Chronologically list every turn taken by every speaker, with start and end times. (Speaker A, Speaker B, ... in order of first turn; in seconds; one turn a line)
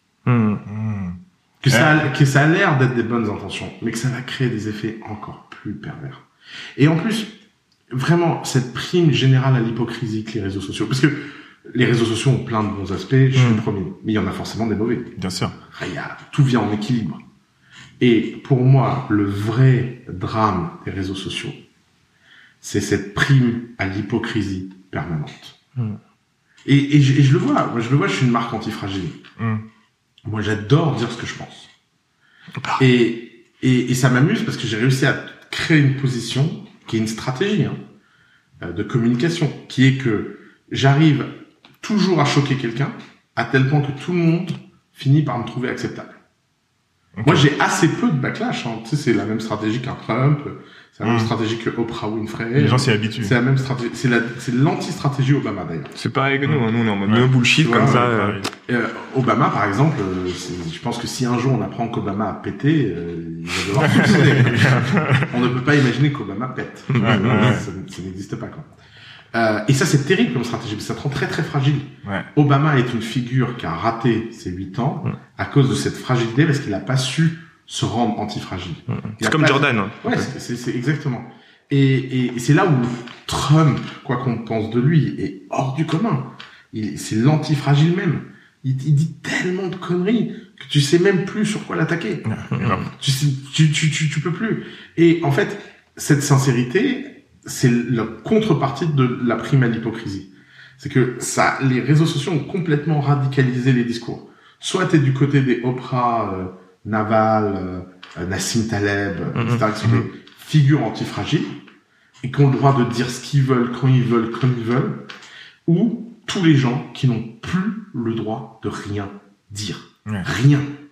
Speaker A: 0.2-0.6
Speaker B: 0.7-2.0
Speaker C: 1.6-7.4
Speaker C: 7.9-15.2
Speaker A: 13.3-13.6
Speaker B: 15.2-15.6
Speaker C: 15.7-17.2
Speaker C: 18.0-21.6
Speaker C: 22.6-25.6
Speaker C: 26.6-29.2
Speaker C: 30.2-31.7
Speaker C: 32.8-37.8
Speaker C: 38.6-41.3
Speaker C: 41.8-46.1
Speaker B: 47.2-47.4
Speaker C: 47.2-55.9
Speaker B: 51.0-51.3
Speaker B: 52.5-53.4
Speaker A: 55.9-58.4
Speaker B: 56.4-58.5
Speaker C: 57.6-58.1
Speaker C: 58.7-68.7
Speaker B: 63.8-65.3
Speaker A: 66.9-67.6
Speaker B: 67.0-67.6
Speaker C: 69.3-111.6
Speaker A: 78.9-80.3
Speaker B: 92.3-92.8
Speaker A: 92.5-92.9
Speaker A: 109.3-109.6
Speaker C: 112.2-115.0
Speaker C: 115.7-120.7